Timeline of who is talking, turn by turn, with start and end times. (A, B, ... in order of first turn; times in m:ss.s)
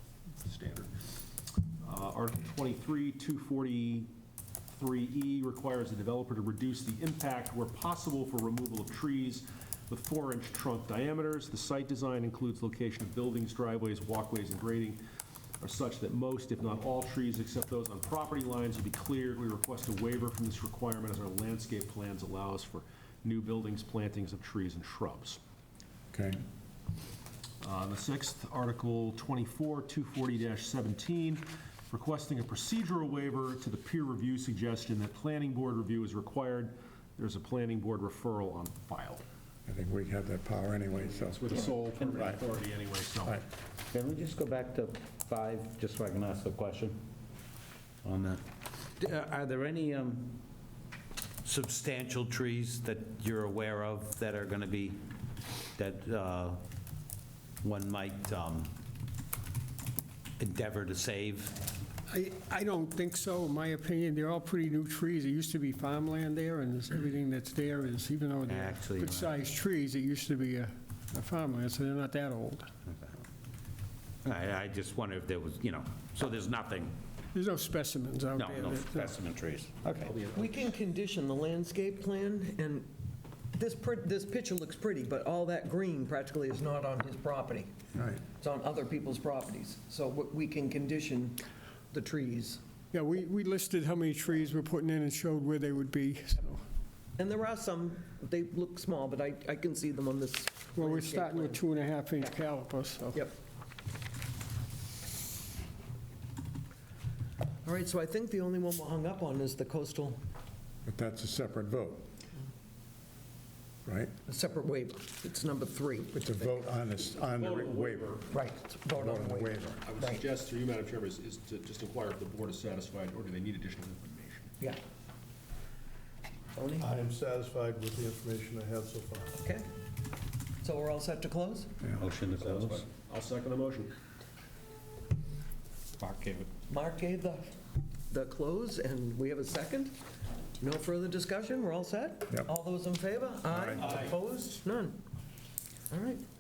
0:00.3-0:00.9 A
0:01.8-0:04.1 A
0:04.7-0:15.0 A
0:15.6-0:25.4 A
0:26.1-0:26.4 B
0:27.6-0:39.2 A
0:39.7-0:42.4 B
0:41.1-0:43.4 A
0:43.9-0:47.0 C
0:48.0-0:48.4 C
0:49.0-0:50.4 C
0:51.4-0:55.0 C
0:55.8-0:56.6 C
0:57.6-0:58.7 C
1:00.4-1:01.7 C
1:02.1-1:12.7 D
1:08.5-1:09.4 C
1:14.2-1:17.0 C
1:17.3-1:19.2 D
1:18.4-1:20.1 C
1:20.0-1:20.7 A
1:20.3-1:22.9 E
1:23.6-1:27.7 E
1:28.0-1:28.2 B
1:28.4-1:32.6 E
1:32.9-1:36.6 D
1:37.2-1:41.6 E
1:40.8-1:43.2 D
1:47.6-1:50.2 E
1:50.9-1:52.0 B
1:53.8-1:54.1 B
1:54.3-1:56.6 E
1:56.1-1:58.2 B
1:57.4-1:58.3 A
1:58.3-2:00.3 E
1:58.9-1:59.8 B
1:59.8-2:04.5 A
2:06.6-2:06.9 E
2:06.8-2:09.4 F
2:09.4-2:09.7 E
2:10.6-2:11.7 E
2:12.0-2:12.9 C
2:12.2-2:13.9 A
2:16.0-2:16.5 C
2:16.7-2:17.5 E
2:18.1-2:20.0 E
2:20.6-2:25.0 E
2:23.8-2:24.1 A
2:25.9-2:26.2 E